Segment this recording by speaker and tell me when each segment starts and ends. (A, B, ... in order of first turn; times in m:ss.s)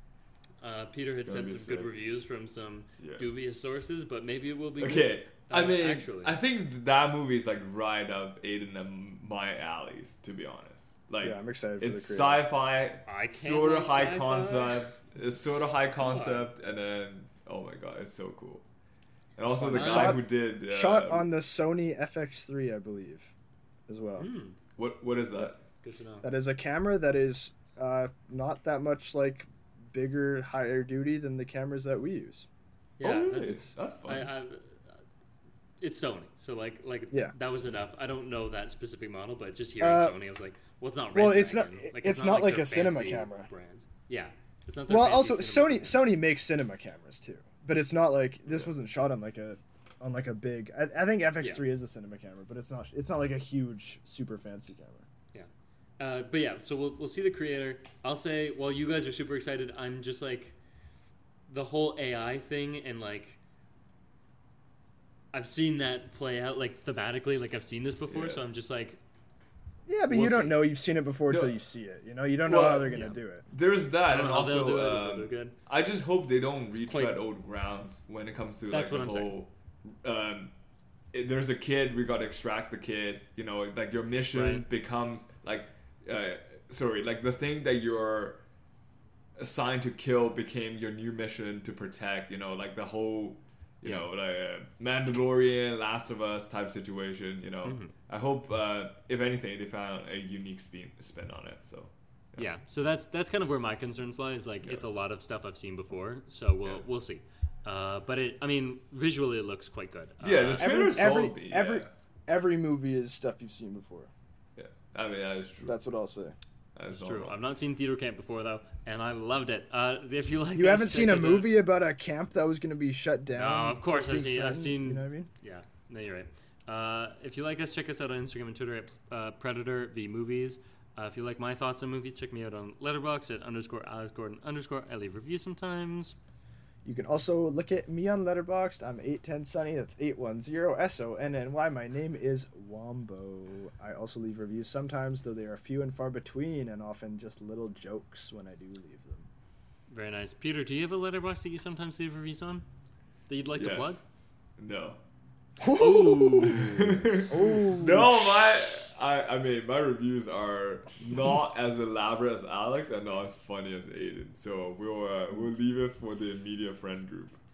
0:00.6-0:06.4 A
0:01.3-0:01.9 B
0:03.0-0:03.3 B
0:04.8-0:18.6 B
0:11.2-0:12.4 C
0:13.1-0:14.9 A
0:16.0-0:16.5 A
0:19.4-0:21.3 B
0:19.5-0:23.3 C
0:19.7-0:20.2 A
0:23.9-0:24.3 C
0:24.2-0:24.6 A
0:24.8-0:25.6 B
0:25.8-0:26.3 A
0:26.2-0:32.5 C
0:33.0-0:35.0 A
0:33.0-0:34.3 B
0:35.8-0:46.1 A
0:39.8-0:40.2 C
0:41.2-0:43.5 C
0:44.9-0:55.1 C
0:56.0-1:00.6 A
1:01.5-1:03.4 A
1:05.3-1:09.0 A
1:08.1-1:08.4 B
1:09.9-1:13.5 C
1:10.1-1:10.6 A
1:11.3-1:11.5 B
1:12.5-1:20.5 B
1:12.6-1:13.2 A
1:14.1-1:15.6 A
1:16.8-1:17.2 A
1:18.7-1:19.4 A
1:21.1-1:28.4 B
1:24.3-1:24.7 A
1:29.4-1:42.5 B
1:33.8-1:34.1 A
1:37.6-1:37.9 A
1:42.4-1:51.1 A
1:50.2-1:51.9 B
1:50.6-1:54.1 C
1:54.6-1:55.8 B
1:55.6-1:56.4 C
1:56.8-1:57.4 B
1:56.9-2:01.5 A
2:00.6-2:05.3 C
2:03.4-2:16.2 A
2:16.8-2:29.3 C
2:29.9-2:32.6 A
2:33.3-2:34.0 A
2:33.6-2:34.1 B
2:34.6-2:35.0 B
2:35.6-2:36.6 C
2:35.8-2:37.1 A
2:36.4-2:47.4 B
2:37.3-2:38.7 C